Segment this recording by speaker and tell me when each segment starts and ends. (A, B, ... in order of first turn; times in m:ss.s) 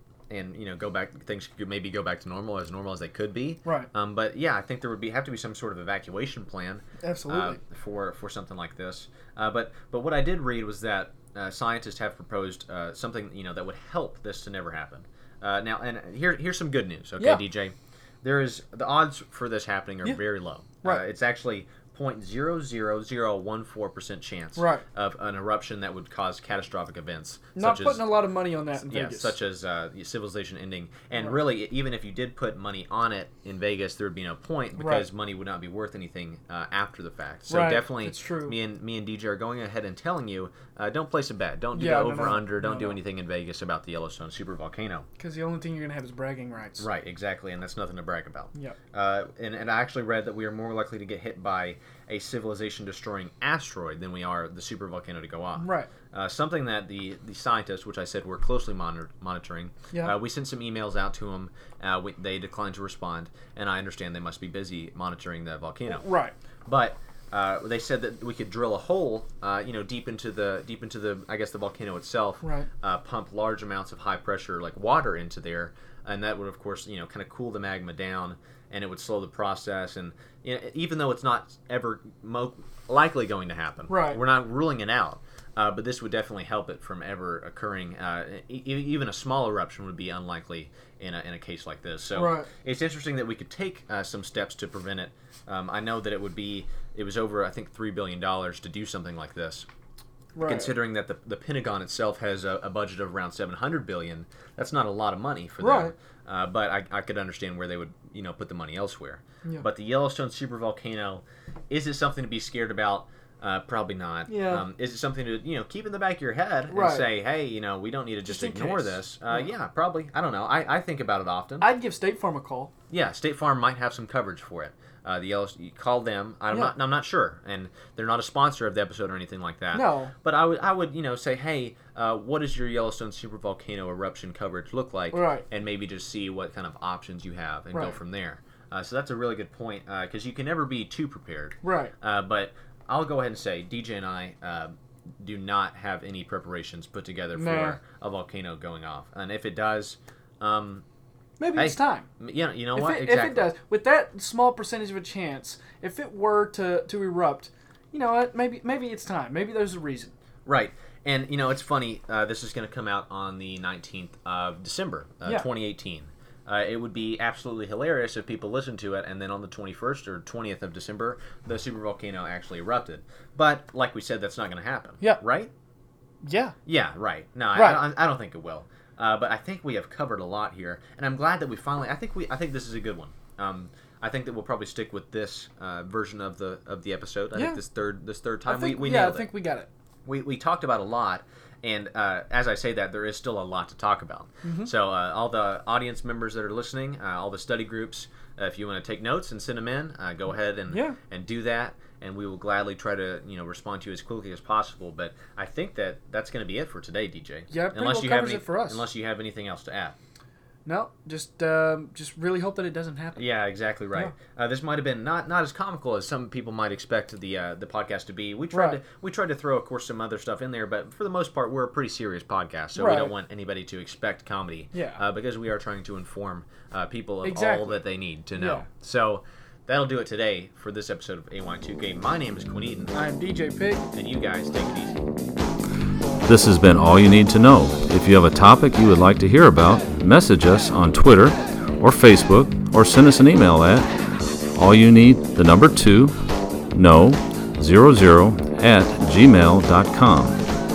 0:00.3-0:28.1 A
0:03.6-0:03.9 B
0:07.0-0:07.6 B
0:24.6-0:24.8 B
0:27.6-0:29.4 B
0:28.8-0:45.1 A
0:31.1-0:31.4 B
0:34.8-0:35.1 B
0:37.5-0:38.6 B
0:41.7-0:43.0 B
0:45.2-0:46.9 B
0:46.8-1:06.1 A
0:55.6-0:55.9 B
1:05.9-1:06.3 B
1:06.7-1:39.7 A
1:12.4-1:12.7 B
1:23.9-1:24.2 B
1:32.1-1:32.5 B
1:40.3-1:40.7 B
1:40.4-2:01.7 A
1:45.6-1:45.9 B
1:54.3-1:54.7 B
1:56.7-1:57.1 B
1:58.3-1:59.5 B
2:01.6-2:02.7 B
2:02.9-2:30.8 A
2:09.7-2:10.1 B
2:15.1-2:15.4 B
2:17.7-2:18.0 B
2:21.6-2:21.9 B
2:27.4-2:27.8 B
2:31.4-2:32.1 B
2:31.5-2:33.5 A
2:32.8-2:40.1 B
2:40.5-2:55.5 A
2:56.2-2:56.6 B
2:56.7-3:09.3 A
2:57.5-2:57.9 B
3:07.4-3:07.6 B
3:08.5-3:09.7 B
3:10.1-3:30.0 A
3:14.4-3:14.7 B
3:20.7-3:21.0 B
3:27.5-3:28.9 B
3:30.6-3:33.2 B
3:33.2-3:52.9 A
3:38.5-3:38.8 B
3:42.8-3:43.1 B
3:44.7-3:45.0 B
3:47.2-3:47.8 B
3:48.4-3:48.7 B
3:52.9-3:53.9 B
3:53.9-3:55.0 A
3:56.2-4:03.9 C
4:04.6-4:10.4 C